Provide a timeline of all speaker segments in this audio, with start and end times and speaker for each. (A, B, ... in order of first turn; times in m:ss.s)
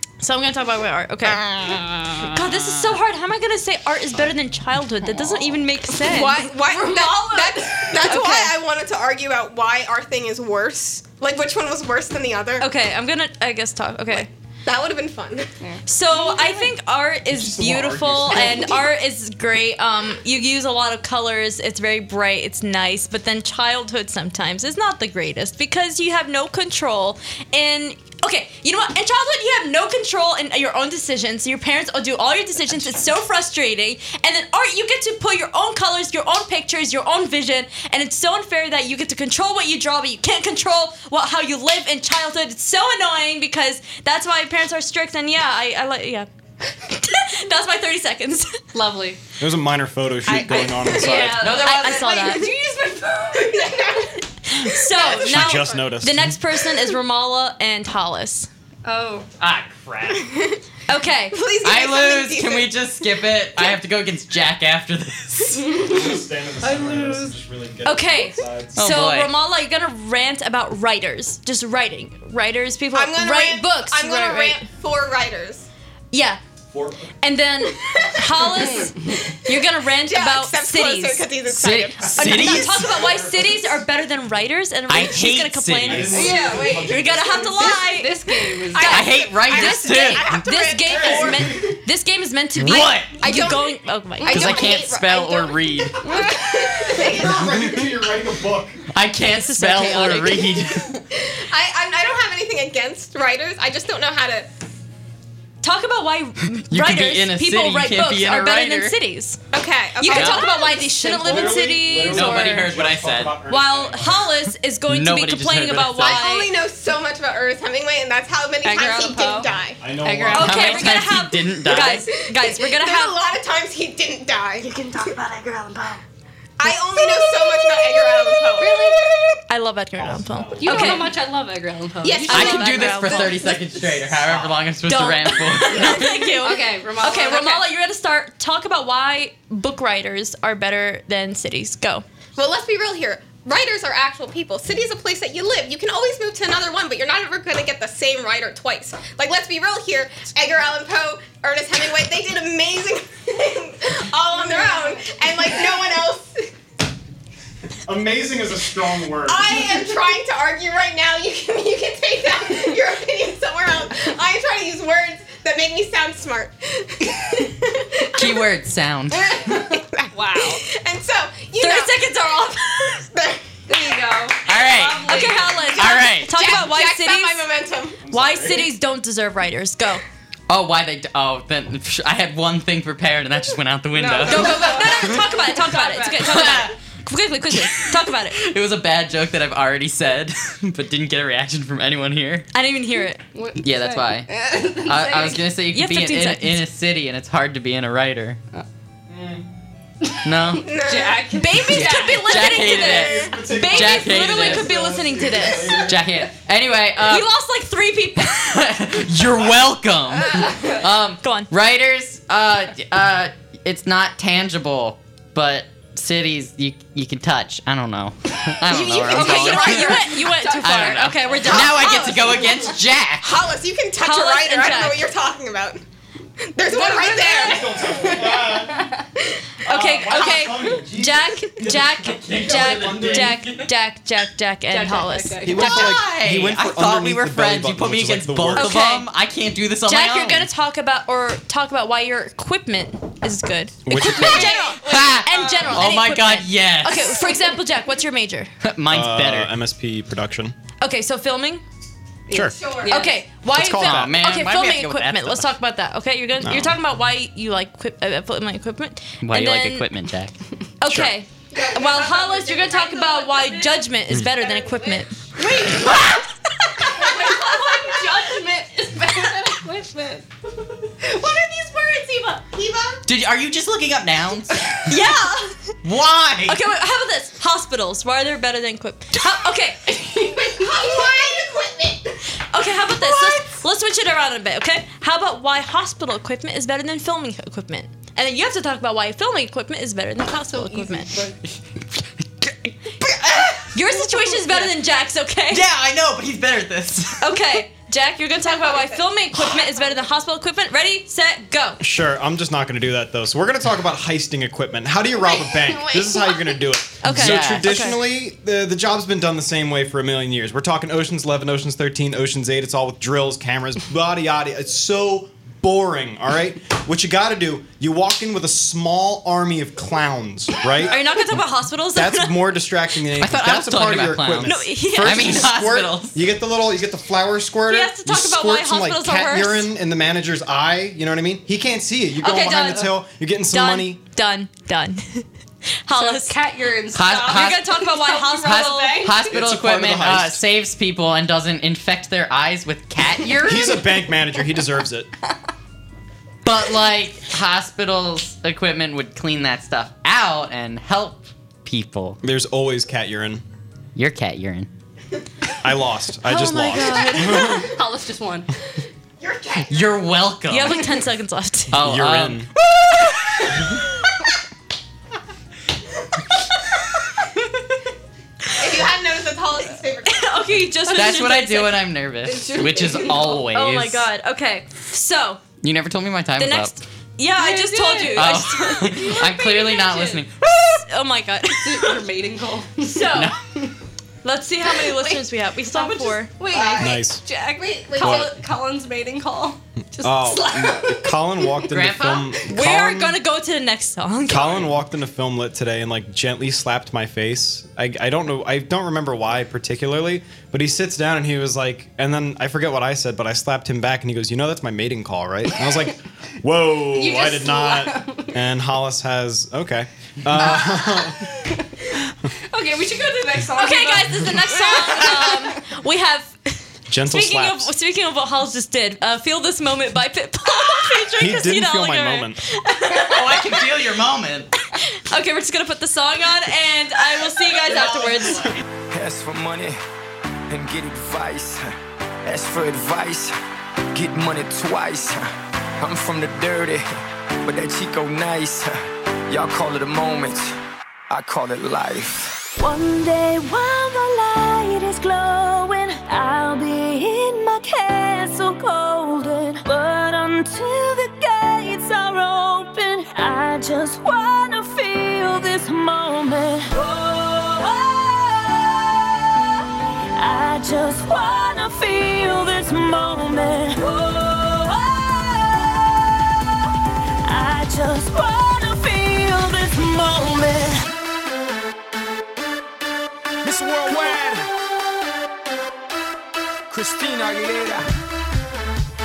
0:00.2-0:01.5 A
0:01.6-0:01.9 B
0:02.3-0:06.5 A
0:06.0-0:12.7 B
0:06.6-0:08.0 C
0:08.0-0:08.5 A
0:12.6-0:14.3 A
0:14.1-0:15.5 B
0:15.6-0:16.7 C
0:15.8-0:46.3 A
0:17.3-0:18.7 D
0:18.4-0:18.8 B
0:46.9-0:48.6 A
0:48.7-0:49.2 C
0:49.4-0:51.5 D
0:50.3-0:52.3 E
0:50.3-0:54.0 C
0:51.6-0:52.5 A
0:52.0-0:52.5 B
0:53.3-0:54.2 B
0:54.5-0:58.5 A
0:54.8-0:55.8 B
0:55.0-0:56.4 D
0:58.8-0:59.3 C
0:59.4-1:00.4 E
1:00.3-1:00.6 B
1:00.9-1:01.4 A
1:01.3-1:02.7 B
1:01.6-1:05.8 E
1:05.6-1:06.0 C
1:05.8-1:08.8 D
1:06.6-1:07.3 C
1:07.8-1:14.6 A
1:08.7-1:09.3 E
1:12.9-1:15.7 B
1:16.1-1:16.4 A
1:16.7-1:17.1 D
1:17.2-1:21.3 A
1:18.6-1:19.2 C
1:20.0-1:22.8 B
1:21.5-1:22.9 E
1:22.2-1:23.8 D
1:22.2-1:28.2 A
1:24.9-1:26.3 E
1:25.8-1:27.6 D
1:26.1-1:26.9 C
1:26.2-1:27.4 B
1:27.5-1:29.2 C
1:28.7-1:31.6 B
1:28.8-1:34.7 A
1:28.8-1:30.4 E
1:30.8-1:31.8 D
1:32.6-1:33.1 E
1:33.2-1:37.8 B
1:34.3-1:36.1 E
1:36.0-1:37.0 C
1:36.9-1:38.8 D
1:38.9-1:41.0 E
1:39.3-1:40.5 A
1:41.1-1:44.5 B
1:45.6-1:49.4 A
1:46.7-1:49.0 E
1:49.5-1:51.5 B
1:50.0-1:52.7 A
1:50.1-1:50.6 E
1:51.1-1:54.4 D
1:51.9-1:53.4 E
1:53.5-1:56.5 A
1:54.9-1:56.3 E
1:56.0-1:59.8 B
1:58.6-2:01.0 C
1:59.8-2:00.6 D
2:00.3-2:03.2 A
2:00.3-2:02.1 E
2:01.8-2:05.1 B
2:06.6-2:09.0 B
2:08.5-2:09.0 C
2:09.5-2:11.1 A
2:10.0-2:10.9 D
2:10.6-2:12.9 C
2:12.0-2:14.1 B
2:12.3-2:13.5 A
2:12.3-2:16.4 E
2:14.8-2:22.0 A
2:15.8-2:17.7 C
2:22.4-2:36.5 B
2:34.4-2:35.1 C
2:37.8-2:39.8 D
2:39.2-2:48.4 B
2:48.1-2:49.4 E
2:49.3-2:52.0 B
2:50.1-2:50.6 C
2:51.6-2:53.1 A
2:53.1-2:53.9 B
2:53.7-2:56.0 C
2:54.4-2:56.3 E
2:55.1-2:57.5 A
2:56.2-2:58.0 B
2:58.0-2:58.7 D
2:58.1-3:00.0 A
3:00.5-3:04.9 E
3:03.9-3:06.6 C
3:04.2-3:08.4 A
3:06.2-3:06.7 E
3:07.7-3:12.5 E
3:12.5-3:13.2 A
3:13.3-3:15.4 C
3:13.6-3:14.3 E
3:14.8-3:18.4 E
3:15.7-3:16.6 A
3:19.1-3:19.4 D
3:20.2-3:20.7 E
3:20.6-3:21.4 B
3:20.7-3:22.4 C
3:21.4-3:25.8 A
3:21.7-3:24.7 E
3:22.8-3:26.0 D
3:25.8-3:27.3 E
3:27.0-3:28.6 A
3:28.4-3:43.3 E
3:31.2-3:31.5 A
3:38.8-3:41.1 C
3:39.0-3:42.1 A
3:41.6-3:42.4 B
3:43.2-3:45.8 B
3:44.0-3:45.1 A
3:46.5-3:48.5 B
3:46.6-3:49.0 C
3:47.4-3:48.8 D
3:49.6-3:53.4 D
3:49.6-3:55.9 A
3:52.0-3:53.7 E
3:54.7-3:55.8 C
3:55.4-3:58.8 D
3:55.6-4:00.5 E
3:58.6-3:59.1 A
3:59.8-4:08.5 A
4:03.8-4:04.6 D
4:04.1-4:05.7 B
4:04.2-4:07.2 E
4:08.6-4:09.5 E
4:08.9-4:10.6 D
4:10.8-4:11.6 A
4:12.3-4:13.2 C
4:12.3-4:12.6 D
4:12.5-4:13.0 B
4:12.9-4:19.8 A
4:13.5-4:14.2 D
4:13.6-4:15.5 E
4:16.4-4:16.8 D
4:19.2-4:20.3 E
4:20.8-4:25.2 A
4:20.8-4:21.1 D
4:21.5-4:23.6 B
4:24.3-4:25.5 B
4:25.4-4:26.2 C
4:26.9-4:30.2 C
4:27.0-4:27.8 B
4:32.4-4:33.0 B
4:33.0-4:34.7 E
4:34.9-4:35.7 A
4:35.8-4:36.6 E
4:36.5-4:39.8 A
4:40.1-4:42.1 B
4:40.7-4:41.1 C
4:42.5-4:51.1 A
4:50.5-4:51.4 C
4:53.0-4:53.5 E
4:53.7-4:55.6 A
4:54.3-4:54.7 C
4:55.5-4:57.4 E
4:57.2-5:01.8 A
4:58.4-4:59.9 B
5:01.8-5:21.3 D
5:05.2-5:06.6 B
5:07.0-5:08.0 A
5:07.1-5:07.9 E
5:20.9-5:22.6 A
5:21.9-5:34.0 D
5:23.2-5:26.2 E
5:24.4-5:25.4 A
5:27.7-5:29.7 A
5:32.2-5:35.3 A
5:35.8-5:36.4 A
5:35.9-5:39.4 C
5:36.9-5:37.9 E
5:37.2-5:39.1 A
5:38.4-5:43.8 E
5:39.3-5:40.4 D
5:43.3-5:43.7 C
5:43.4-5:45.1 D
5:46.4-5:52.2 E
5:52.2-5:53.4 D
5:53.9-5:54.7 E
5:55.6-5:57.7 D
5:56.2-5:57.6 A
5:57.2-5:58.5 C
5:59.2-6:00.0 B
5:59.7-6:00.9 E
6:00.5-6:01.8 A
6:01.7-6:02.4 E
6:01.7-6:02.5 D
6:08.6-6:10.5 B
6:10.1-6:11.8 A
6:10.9-6:14.0 E
6:12.3-6:13.3 C
6:13.3-6:15.4 A
6:15.6-6:16.8 E
6:16.4-6:19.2 A
6:17.4-6:20.2 C
6:18.1-6:20.8 E
6:20.7-6:22.0 A
6:21.6-6:23.7 C
6:22.8-6:23.3 A
6:24.2-6:26.3 A
6:25.7-6:31.6 C
6:26.5-6:28.3 B
6:26.8-6:27.2 D
6:28.0-6:28.3 D
6:30.0-6:33.2 D
6:31.7-6:32.3 E
6:32.5-6:34.7 A
6:34.3-6:51.2 D
6:46.9-6:48.4 C
6:50.4-6:51.6 C
6:52.5-6:55.6 C
6:53.6-7:03.4 A
6:56.9-6:57.7 D
7:01.2-7:02.4 D
7:03.0-7:04.5 E
7:05.1-7:08.5 A
7:07.7-7:08.5 E
7:08.9-7:09.8 F
7:10.5-7:11.7 F
7:12.2-7:13.3 F
7:13.9-7:15.3 F
7:15.8-7:16.8 F
7:17.4-7:18.7 F
7:19.3-7:20.5 F
7:21.1-7:22.4 F
7:22.6-7:39.3 G
7:40.2-7:46.4 G
7:47.2-7:50.8 G
7:53.4-7:54.5 F
7:56.7-7:57.8 F